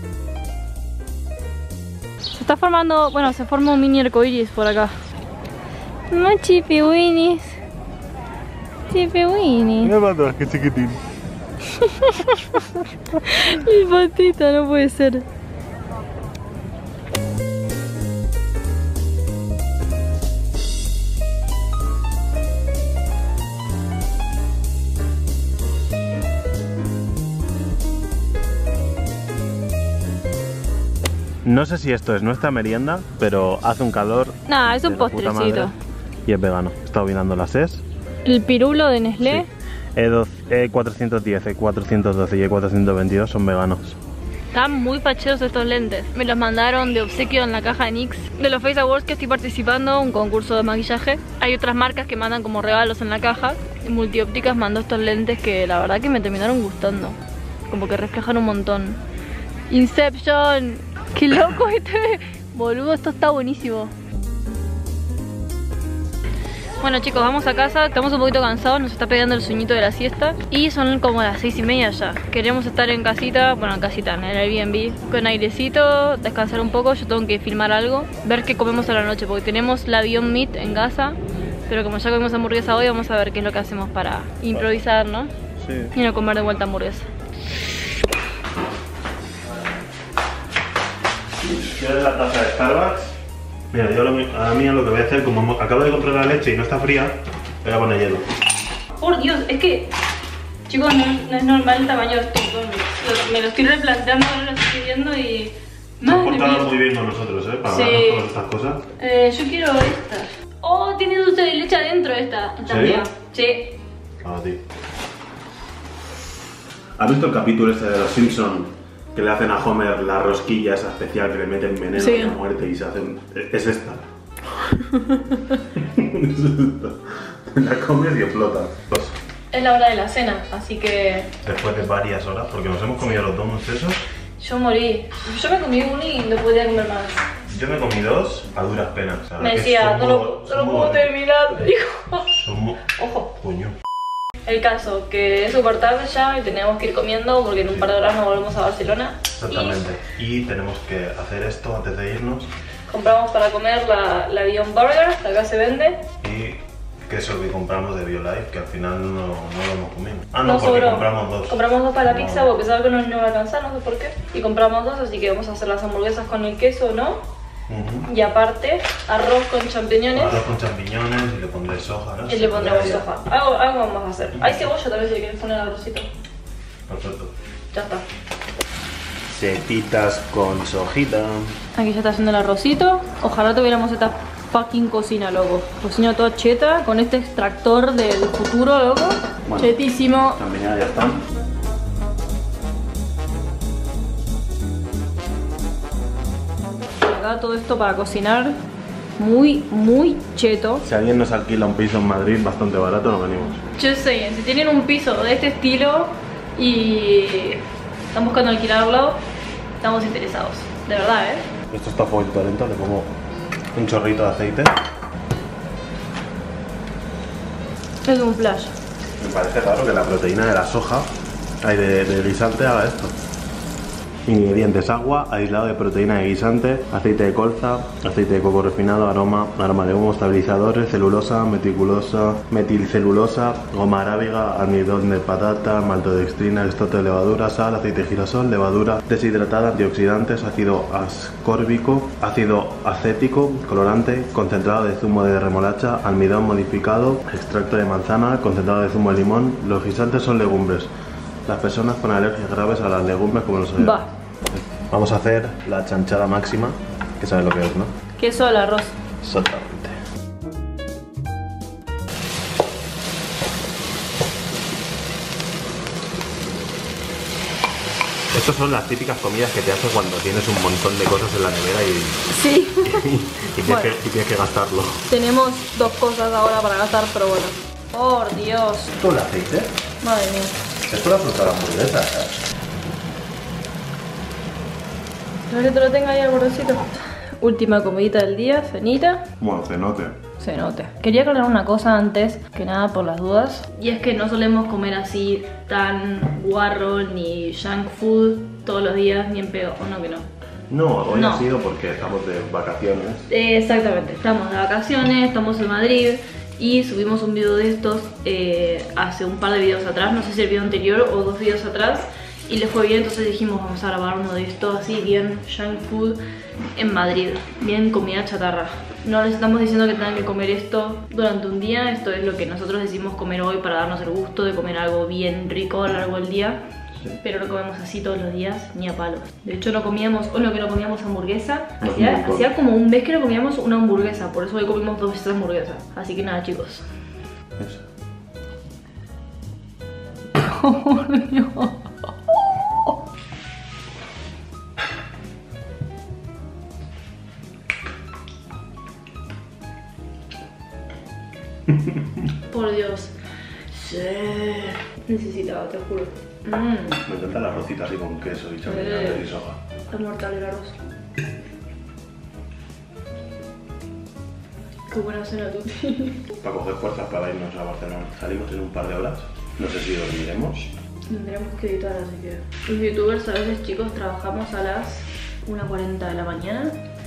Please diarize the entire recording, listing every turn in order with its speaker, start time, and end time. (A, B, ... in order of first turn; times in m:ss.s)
0:02.3-0:04.9 A
0:06.1-0:07.6 A
0:08.9-0:09.9 A
0:09.8-0:11.0 B
0:11.8-0:15.2 A
0:31.4-0:35.7 B
0:34.5-0:35.7 A
0:36.2-0:37.8 B
0:38.2-0:39.5 A
0:39.2-0:44.0 B
0:44.5-0:57.2 A
0:57.7-0:59.0 A
0:59.7-1:03.9 A
1:06.8-1:21.2 A
1:21.7-1:25.3 A
1:25.6-1:25.9 B
1:25.9-1:27.1 A
1:31.4-1:33.2 B
1:33.7-1:38.2 B
1:39.0-1:39.9 A
1:40.7-1:46.7 A
1:46.0-1:48.8 B
1:47.6-1:48.3 A
1:49.0-1:53.8 A
1:52.7-1:53.1 B
1:54.2-1:54.6 B
1:57.0-2:04.0 B
2:01.9-2:02.4 A
2:04.8-2:05.5 A
2:05.6-2:09.2 B
2:09.5-2:11.3 A
2:11.4-2:14.0 B
2:14.4-2:17.3 A
2:17.5-2:21.1 B
2:19.4-2:22.4 A
2:22.3-2:23.8 B
2:23.0-2:23.3 A
2:24.4-2:29.8 A
2:27.7-2:28.0 B
2:29.4-2:32.5 B
2:32.9-2:36.0 A
2:36.2-2:42.5 B
2:40.4-2:47.2 A
2:47.7-2:48.1 B
2:48.1-2:50.4 A
2:50.1-2:53.1 B
2:52.3-2:56.1 A
2:54.3-2:54.7 B
2:56.9-2:57.3 B
2:57.7-2:58.0 A
2:59.3-3:01.5 B
3:01.7-3:10.4 A
3:09.4-3:11.2 B
3:17.0-3:18.6 A
3:19.2-3:20.8 A
3:20.8-3:23.6 B
3:23.7-3:29.2 A
3:29.8-3:31.5 A
3:31.7-3:33.1 B
3:33.7-3:34.7 B
3:38.0-3:38.7 A
3:39.2-3:41.1 B
3:41.6-3:43.1 B
3:44.2-4:10.9 B
4:11.4-4:17.9 B
4:13.8-4:14.1 A
4:18.2-4:19.0 A
4:19.2-4:19.9 B
4:28.3-4:32.3 B
4:32.3-4:33.0 A
4:32.8-4:35.0 B
4:33.6-4:33.9 A
4:35.1-4:38.9 A
4:39.0-4:39.7 B
4:40.0-4:40.5 A
4:40.9-4:42.4 B
4:45.5-4:49.3 A
4:49.4-4:50.2 B
4:50.4-5:00.3 A
5:00.7-5:03.3 B
5:01.1-5:01.4 A
5:03.3-5:16.2 A
5:16.7-5:26.6 A
5:27.2-5:36.8 A
5:31.8-5:32.5 B
5:37.6-5:37.8 B
5:40.4-5:41.8 A
5:52.5-5:53.1 A
5:53.7-5:57.0 A
5:57.0-5:59.6 B
5:58.6-5:59.3 A
5:59.9-6:00.8 A
6:04.9-6:06.3 A
6:06.4-6:10.7 B
6:11.1-6:16.8 A